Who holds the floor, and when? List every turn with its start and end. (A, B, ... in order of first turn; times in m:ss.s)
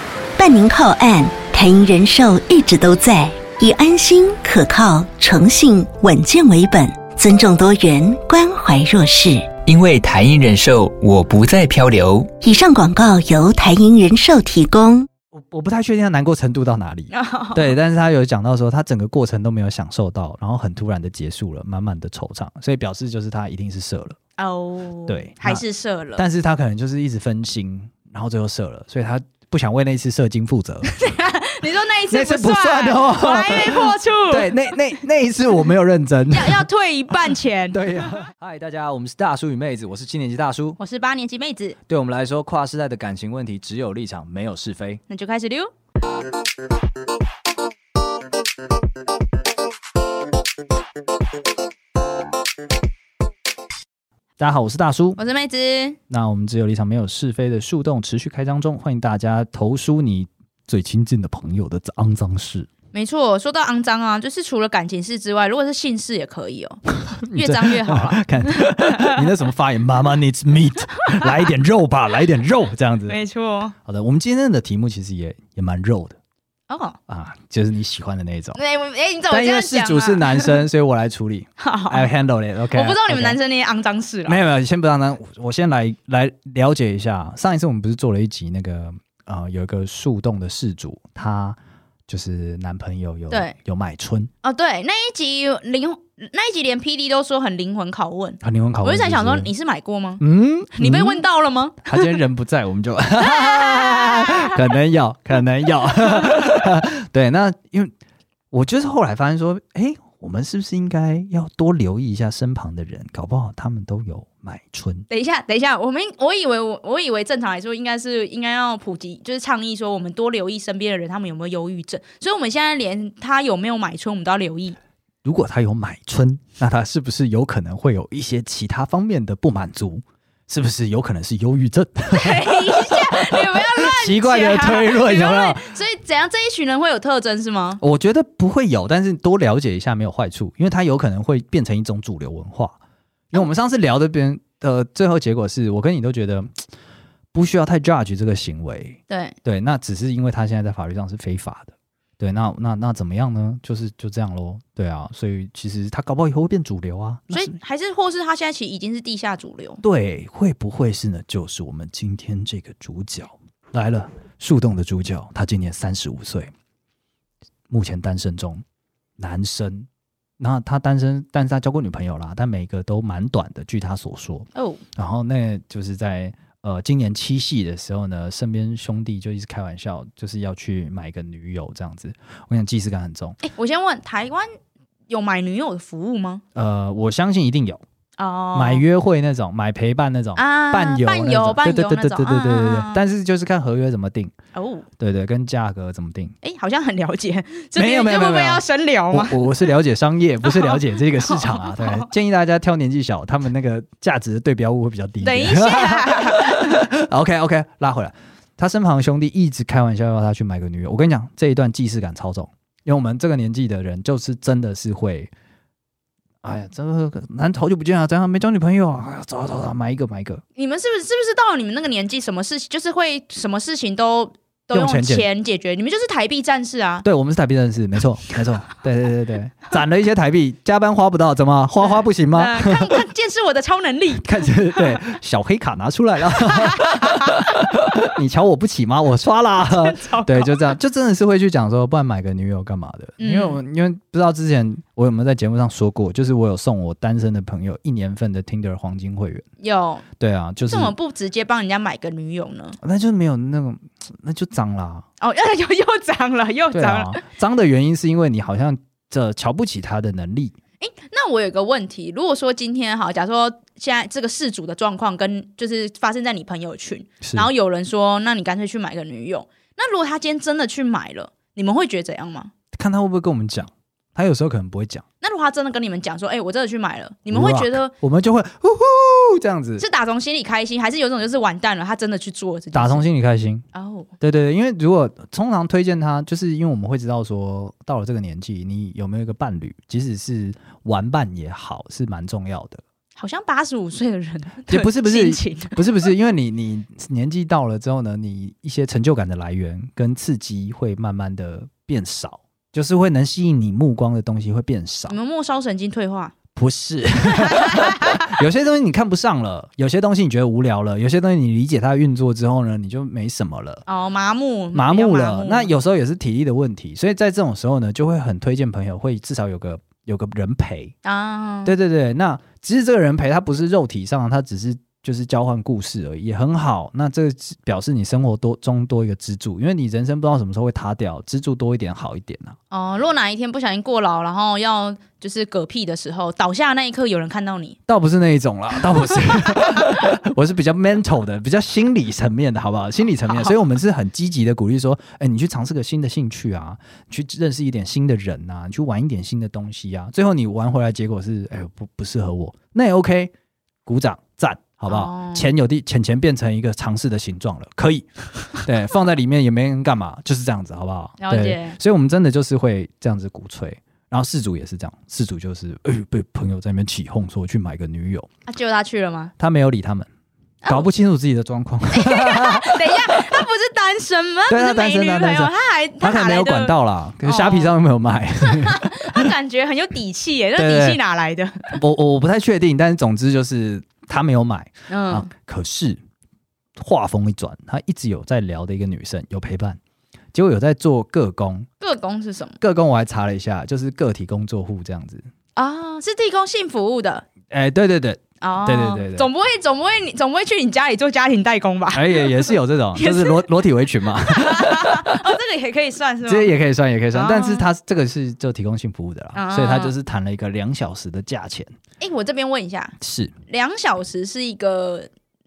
0:00.4-0:09.5 A
0:09.6-0:12.3 B
0:12.4-0:15.1 A
0:15.3-0:24.2 C
0:17.1-0:17.7 D
0:24.4-0:26.2 D
0:25.1-0:25.6 C
0:26.2-0:30.9 C
0:31.0-0:34.8 D
0:32.1-0:36.7 C
0:36.3-0:37.8 D
0:37.3-0:40.8 C
0:40.8-0:41.8 D
0:41.9-0:45.0 C
0:45.1-0:45.7 D
0:54.4-0:55.2 C
0:55.2-0:56.0 D
0:56.1-1:02.7 C
1:02.9-1:09.2 D
1:07.0-1:13.2 C
1:13.1-1:13.7 D
1:13.8-1:16.2 C
1:16.7-1:17.0 D
1:17.1-1:18.6 C
1:18.6-1:20.6 D
1:19.3-1:23.4 C
1:21.6-1:22.1 D
1:22.7-1:24.4 D
1:24.3-1:31.6 C
1:32.1-1:34.3 C
1:34.4-1:40.2 D
1:38.4-1:39.5 C
1:40.2-1:41.2 C
1:40.7-1:42.2 D
1:41.8-1:47.9 C
1:43.2-1:44.6 D
1:48.5-1:55.0 C
1:55.1-2:04.8 D
2:05.2-2:15.7 C
2:12.1-2:17.8 D
2:17.8-2:22.8 C
2:23.3-2:26.6 C
2:27.3-2:37.5 C
2:29.1-2:29.4 D
2:37.3-2:39.8 D
2:39.8-2:46.5 C
2:47.7-2:48.6 C
2:49.2-3:03.4 C
2:54.5-2:54.8 D
3:03.4-3:04.5 D
3:05.1-3:06.4 D
3:06.5-3:07.8 C
3:08.2-3:08.8 D
3:08.5-3:14.3 C
3:10.4-3:13.0 D
3:14.5-3:14.9 D
3:15.0-3:16.3 C
3:16.4-3:19.5 D
3:17.7-3:35.3 C
3:20.5-3:22.1 D
3:25.2-3:26.8 D
3:36.4-3:40.4 C
3:40.6-3:47.0 D
3:44.7-3:45.3 C
3:47.0-3:53.0 C
3:51.8-3:55.0 D
3:54.2-4:09.4 C
3:56.4-3:57.4 D
3:59.6-4:00.7 D
4:03.2-4:03.6 D
4:09.6-4:10.0 D
4:10.2-4:10.9 C
4:10.6-4:12.8 D
4:12.8-4:15.0 C
4:15.2-4:17.2 D
4:16.7-4:20.6 C
4:20.8-4:32.5 D
4:27.2-4:27.5 C
4:32.7-4:35.0 C
4:35.2-4:37.9 D
4:37.3-4:39.8 C
4:39.8-4:43.0 D
4:42.7-4:43.6 C
4:43.7-4:44.1 D
4:44.2-4:52.8 C
4:53.2-4:55.8 D
4:54.7-5:05.2 C
5:05.1-5:06.3 D
5:06.5-5:13.8 C
5:07.4-5:08.2 D
5:13.9-5:15.7 D
5:14.7-5:20.9 C
5:21.0-5:21.7 D
5:21.6-5:32.6 C
5:32.7-5:37.8 D
5:37.9-5:53.3 C
5:53.8-6:08.3 C
5:54.9-5:55.5 D
6:01.2-6:01.8 D
6:08.5-6:09.3 D
6:09.4-6:10.1 C
6:10.7-6:13.2 C
6:11.9-6:17.7 D
6:14.5-6:19.3 C
6:18.4-6:21.8 D
6:20.6-6:21.0 C
6:21.7-6:26.0 C
6:24.9-6:25.3 D
6:26.8-6:29.8 C
6:30.3-6:31.7 C
6:31.8-6:32.6 D
6:32.6-6:35.3 C
6:35.6-6:37.2 D
6:37.5-6:39.3 C
6:38.4-6:43.5 D
6:41.9-6:45.2 C
6:44.2-6:46.5 D
6:46.2-6:51.7 C
6:47.1-6:47.7 D
6:49.3-6:49.9 D
6:52.0-6:53.0 D
6:53.0-6:53.3 C
6:53.5-6:55.1 D